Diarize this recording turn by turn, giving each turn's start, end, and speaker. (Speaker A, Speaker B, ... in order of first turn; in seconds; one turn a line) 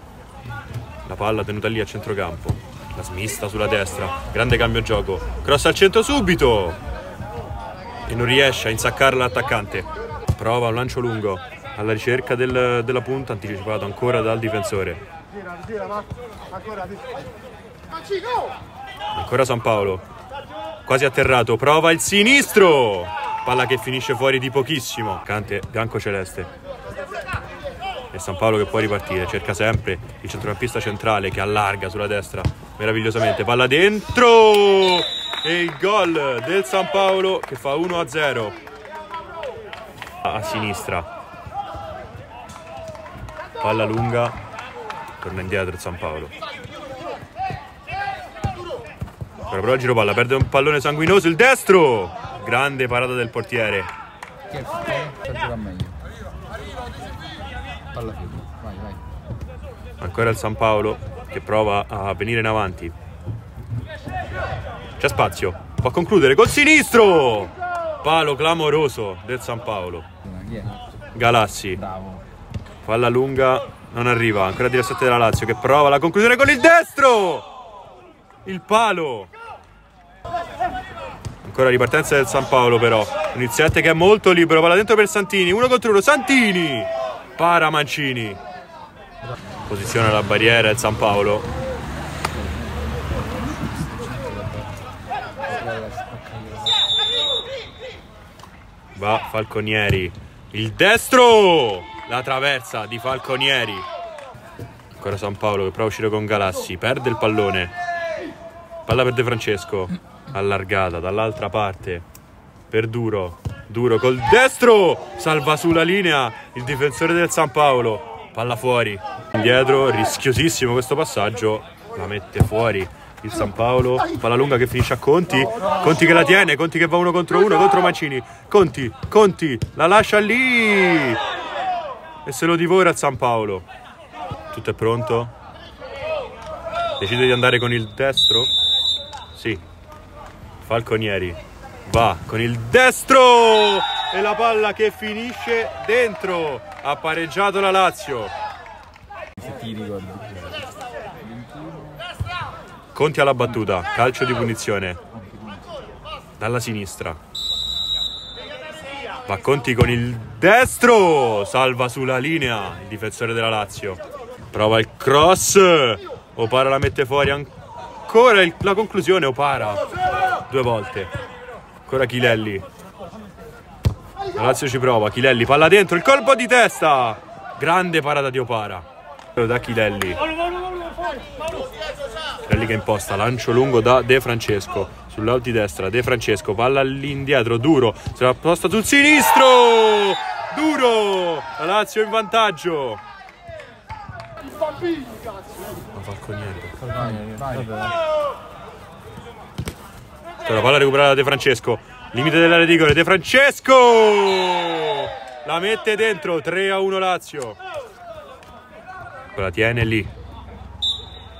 Speaker A: 1.0-6.8
Speaker A: 8.1-15.0
Speaker A: 19.1-20.1
Speaker A: 20.8-26.5
Speaker A: 28.1-38.6
Speaker A: 40.2-41.1
Speaker A: 43.6-44.4
Speaker A: 45.1-46.3
Speaker A: 49.5-53.9
Speaker B: 54.5-56.0
Speaker B: 57.9-59.0
Speaker A: 60.0-62.9
Speaker A: 65.0-70.1
Speaker B: 70.2-70.8
Speaker A: 71.1-71.8
Speaker B: 71.8-72.2
Speaker A: 72.8-77.5
Speaker A: 78.4-79.3
Speaker A: 81.4-88.4
Speaker A: 89.7-91.5
Speaker B: 93.6-94.7
Speaker B: 95.5-96.8
Speaker A: 98.9-103.8
Speaker A: 104.9-107.7
Speaker A: 108.8-112.0
Speaker A: 112.7-131.2
Speaker A: 132.2-133.7
Speaker A: 134.5-135.3
Speaker A: 137.0-138.5
Speaker A: 139.3-139.6
Speaker A: 140.6-148.3
Speaker B: 149.4-150.6
Speaker B: 151.2-152.0
Speaker A: 152.9-155.0
Speaker B: 155.1-155.6
Speaker A: 156.4-157.2
Speaker A: 159.2-167.5
Speaker A: 168.1-169.9
Speaker A: 170.5-171.1
Speaker A: 171.8-172.6
Speaker A: 174.3-180.2
Speaker A: 182.4-193.0
Speaker A: 195.9-197.1
Speaker B: 196.8-197.8
Speaker A: 200.4-207.6
Speaker A: 209.3-210.1